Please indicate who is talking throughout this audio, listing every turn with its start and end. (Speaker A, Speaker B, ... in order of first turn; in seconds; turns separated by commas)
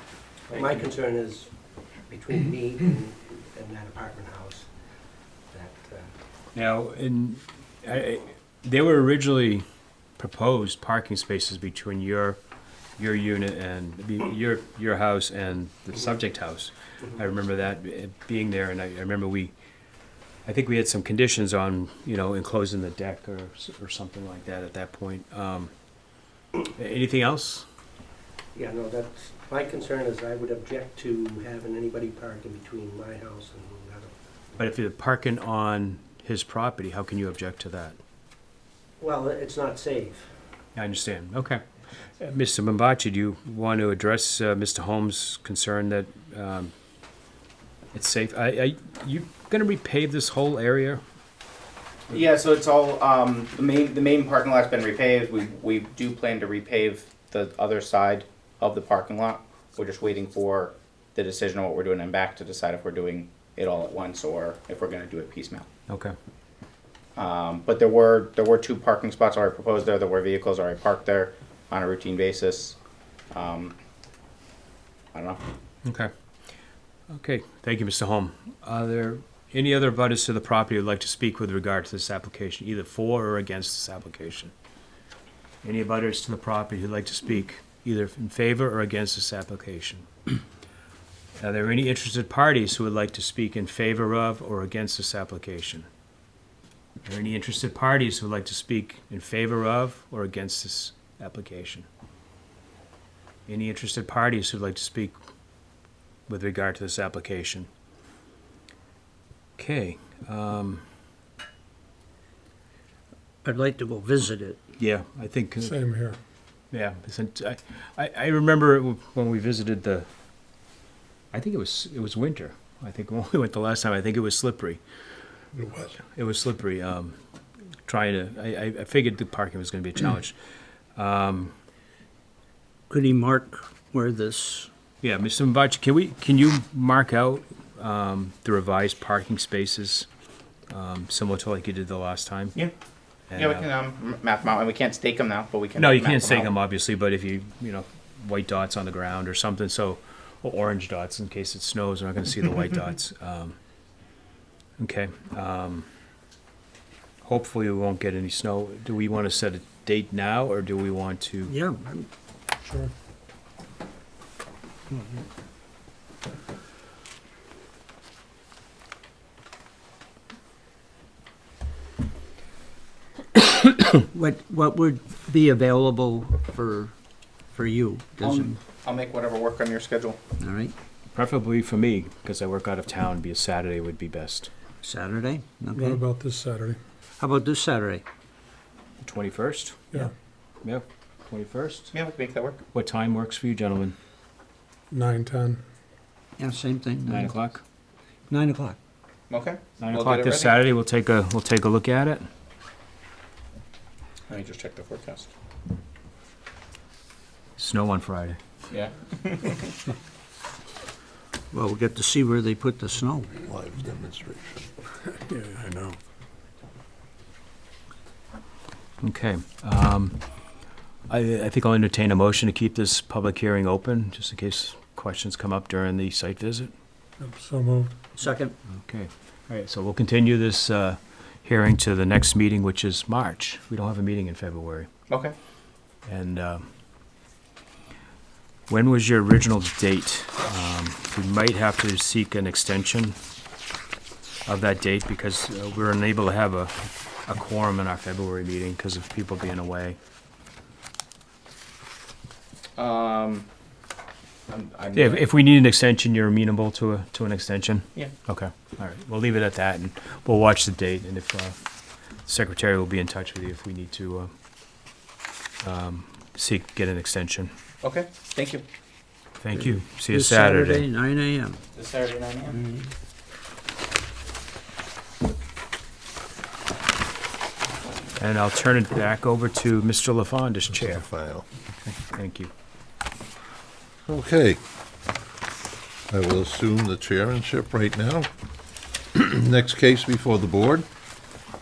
Speaker A: 0.5-1.5, Speaker B: 0.5-0.8, Speaker A: 2.1-4.7, Speaker A: 5.5-6.1, Speaker B: 6.5-9.7, Speaker B: 10.2-12.4, Speaker B: 13.0-19.5, Speaker B: 20.4-25.7, Speaker B: 26.6-27.7, Speaker A: 28.5-34.2, Speaker B: 34.6-38.0, Speaker A: 39.0-40.3, Speaker B: 40.8-41.6, Speaker B: 42.2-46.7, Speaker B: 47.9-51.0, Speaker C: 52.1-65.7, Speaker B: 65.9-66.1, Speaker C: 67.2-72.8, Speaker C: 73.3-73.8, Speaker C: 75.1-75.4, Speaker B: 75.8-76.1, Speaker B: 77.1-84.5, Speaker B: 85.6-90.1, Speaker B: 91.4-95.9, Speaker B: 97.0-101.9, Speaker B: 103.5-105.2, Speaker B: 106.3-107.7, Speaker B: 109.6-110.8, Speaker D: 113.4-114.6, Speaker B: 114.8-115.8, Speaker E: 115.6-116.2, Speaker B: 116.7-120.1, Speaker B: 121.3-124.8, Speaker E: 125.5-125.9, Speaker B: 126.1-127.2, Speaker B: 127.9-130.3, Speaker B: 131.0-131.5, Speaker D: 132.9-134.7, Speaker B: 135.0-140.1, Speaker B: 140.7-142.6, Speaker B: 143.3-143.7, Speaker C: 143.3-146.5, Speaker B: 145.8-153.6, Speaker B: 154.8-155.9, Speaker B: 157.2-161.5, Speaker D: 161.5-162.1, Speaker E: 162.6-162.9, Speaker D: 174.1-176.9, Speaker D: 177.5-178.6, Speaker C: 178.2-180.2, Speaker D: 180.4-180.7, Speaker B: 181.1-184.5, Speaker D: 184.8-186.0, Speaker E: 185.7-186.8, Speaker D: 187.2-188.0, Speaker B: 189.0-190.0, Speaker B: 190.6-191.9, Speaker C: 191.9-192.6, Speaker B: 192.7-193.9, Speaker E: 194.9-195.6, Speaker D: 196.4-197.3, Speaker B: 197.1-197.6, Speaker D: 198.3-198.8, Speaker C: 199.3-200.6, Speaker B: 199.8-202.3, Speaker C: 204.3-205.3, Speaker B: 207.6-208.4, Speaker C: 208.7-209.7, Speaker D: 211.5-213.3, Speaker F: 213.4-214.7, Speaker E: 215.3-216.0, Speaker B: 219.0-220.2, Speaker B: 221.1-226.7, Speaker E: 227.2-227.9, Speaker D: 228.2-228.5, Speaker B: 228.7-234.9, Speaker C: 235.1-235.3, Speaker B: 236.1-236.7, Speaker B: 238.7-243.2, Speaker B: 244.5-246.7, Speaker B: 247.3-250.0, Speaker C: 252.8-253.5, Speaker C: 254.5-255.2, Speaker B: 254.9-261.6, Speaker B: 262.3-264.3, Speaker B: 265.6-267.5, Speaker C: 267.8-268.6, Speaker B: 269.4-270.9, Speaker D: 269.5-271.6, Speaker C: 271.8-272.6, Speaker D: 272.5-272.9, Speaker B: 278.2-281.1, Speaker F: 280.7-281.5, Speaker B: 282.1-282.5, Speaker F: 284.1-284.6, Speaker F: 286.1-288.3, Speaker F: 289.1-290.9